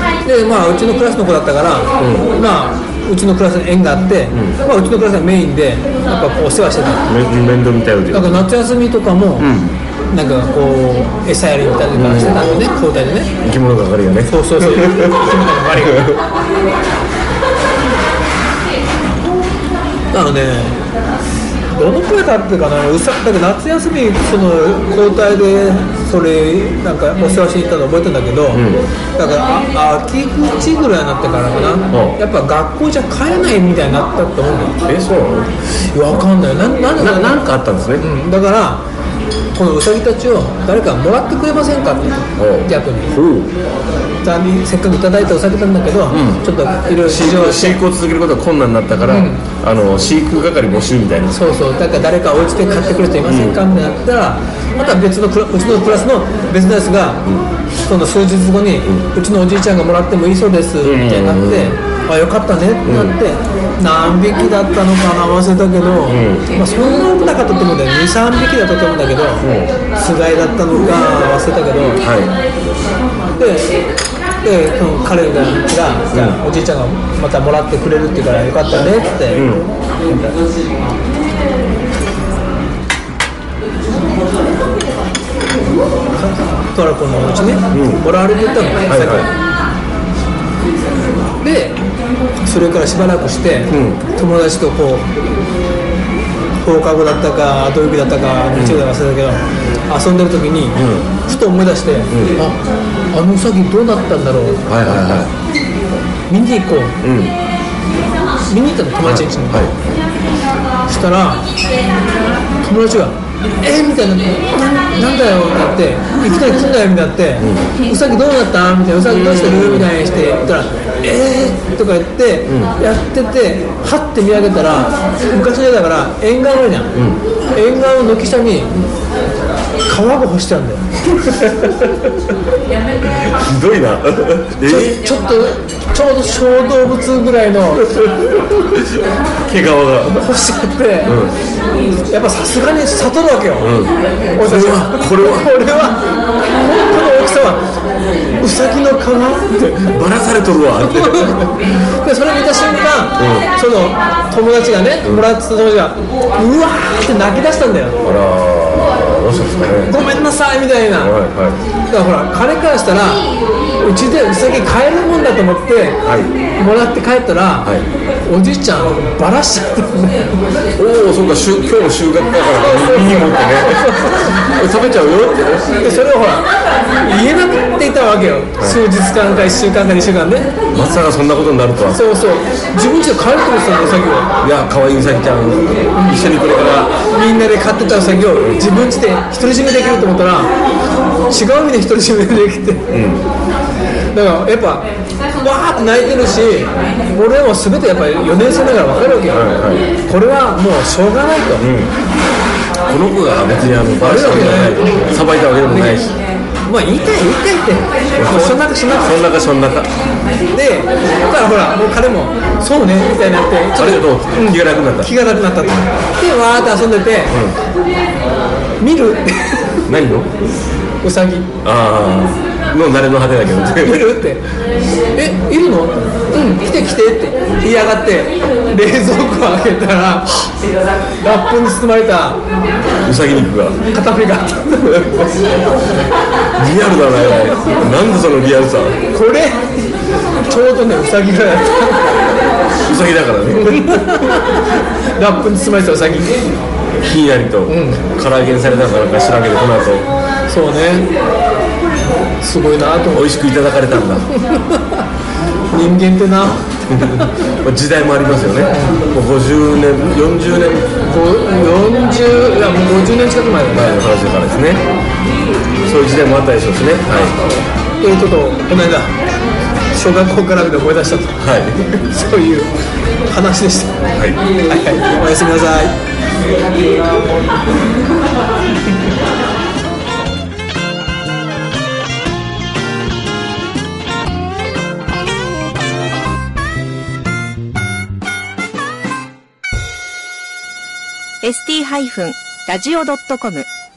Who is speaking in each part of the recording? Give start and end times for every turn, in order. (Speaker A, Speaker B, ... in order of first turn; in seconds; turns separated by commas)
Speaker A: 0.2-7.1, Speaker B: 2.0-2.3, Speaker B: 4.3-4.6, Speaker B: 7.1-8.5, Speaker A: 8.1-9.5, Speaker B: 9.4-9.8, Speaker A: 10.1-13.3, Speaker B: 11.9-12.6, Speaker B: 13.4-16.2, Speaker A: 14.3-16.1, Speaker A: 20.1-20.8, Speaker A: 21.7-34.8, Speaker B: 28.5-28.8, Speaker B: 31.9-32.2, Speaker B: 34.9-35.5, Speaker A: 35.8-37.4, Speaker B: 37.0-38.1, Speaker A: 38.0-38.9, Speaker A: 39.5-43.2, Speaker B: 42.4-43.5, Speaker A: 44.2-47.8, Speaker B: 46.1-46.4, Speaker B: 47.0-51.4, Speaker A: 49.1-49.4, Speaker A: 51.3-57.3, Speaker B: 53.2-53.6, Speaker A: 57.9-69.5, Speaker B: 60.8-61.8, Speaker B: 62.8-63.1, Speaker B: 66.1-66.5, Speaker B: 69.4-69.7, Speaker A: 70.0-72.0, Speaker B: 72.0-72.4, Speaker A: 73.4-73.8, Speaker A: 74.4-80.4, Speaker B: 76.1-76.4, Speaker B: 79.3-79.7, Speaker A: 86.2-89.3, Speaker B: 87.7-88.0, Speaker B: 88.9-89.3, Speaker A: 91.4-91.8, Speaker A: 92.4-95.1, Speaker B: 93.7-94.0, Speaker A: 96.6-102.6, Speaker B: 98.6-98.8, Speaker B: 100.8-101.1, Speaker B: 102.1-102.4, Speaker A: 103.1-104.8, Speaker B: 104.7-105.3, Speaker A: 106.3-107.0, Speaker B: 107.0-107.4, Speaker A: 108.5-109.7, Speaker B: 109.0-109.8, Speaker A: 110.9-111.5, Speaker A: 112.6-126.9, Speaker B: 117.4-117.7, Speaker B: 119.0-119.9, Speaker B: 122.5-122.7, Speaker B: 126.9-127.2, Speaker A: 127.5-128.9, Speaker A: 129.9-130.8, Speaker B: 131.6-131.8, Speaker B: 133.1-135.0, Speaker A: 134.7-137.9, Speaker B: 138.0-138.9, Speaker B: 139.5-140.3, Speaker A: 140.1-141.2, Speaker B: 141.1-141.4, Speaker A: 142.1-143.8, Speaker B: 143.6-145.6, Speaker A: 144.3-146.1, Speaker A: 146.6-147.7, Speaker A: 148.4-149.5, Speaker B: 149.5-151.5, Speaker A: 150.8-158.0, Speaker B: 153.2-153.5, Speaker B: 158.0-160.1, Speaker A: 159.9-161.2, Speaker B: 160.9-161.6, Speaker A: 161.9-163.3, Speaker A: 163.8-166.0, Speaker B: 166.0-166.4, Speaker A: 166.6-167.7, Speaker A: 168.2-170.3, Speaker B: 170.8-175.9, Speaker A: 172.6-174.4, Speaker A: 175.7-176.5, Speaker A: 177.0-180.5, Speaker B: 180.7-182.0, Speaker A: 181.9-184.3, Speaker B: 184.4-186.9, Speaker A: 185.9-186.3, Speaker A: 187.1-190.5, Speaker A: 191.3-192.9, Speaker B: 192.9-193.2, Speaker A: 194.1-201.7, Speaker B: 199.3-199.9, Speaker B: 201.6-201.9, Speaker B: 202.9-206.2, Speaker A: 204.0-206.1, Speaker A: 206.7-209.2, Speaker B: 208.2-209.9, Speaker A: 210.5-217.4, Speaker B: 213.8-215.1, Speaker B: 217.3-217.6, Speaker A: 218.8-219.9, Speaker B: 219.9-220.3, Speaker A: 221.0-221.5, Speaker B: 221.6-224.2, Speaker A: 223.8-224.5, Speaker A: 225.1-230.5, Speaker A: 231.2-232.4, Speaker B: 233.0-233.8, Speaker A: 233.9-234.9, Speaker B: 236.6-239.0, Speaker A: 239.1-239.7, Speaker A: 240.4-242.2, Speaker B: 242.8-244.4, Speaker A: 243.6-244.4, Speaker A: 245.1-246.5, Speaker B: 247.0-250.1, Speaker A: 247.7-248.0, Speaker A: 250.5-251.1, Speaker A: 252.4-253.5, Speaker B: 253.1-254.3, Speaker A: 254.5-255.0, Speaker A: 255.7-257.3, Speaker B: 256.9-260.9, Speaker A: 258.7-259.0, Speaker A: 261.0-264.0, Speaker B: 263.7-264.8, Speaker B: 265.8-267.4, Speaker A: 268.0-269.1, Speaker A: 269.9-271.4, Speaker B: 271.4-272.0, Speaker A: 272.1-272.7, Speaker A: 273.3-274.1, Speaker A: 274.7-275.9, Speaker C: 291.4-293.7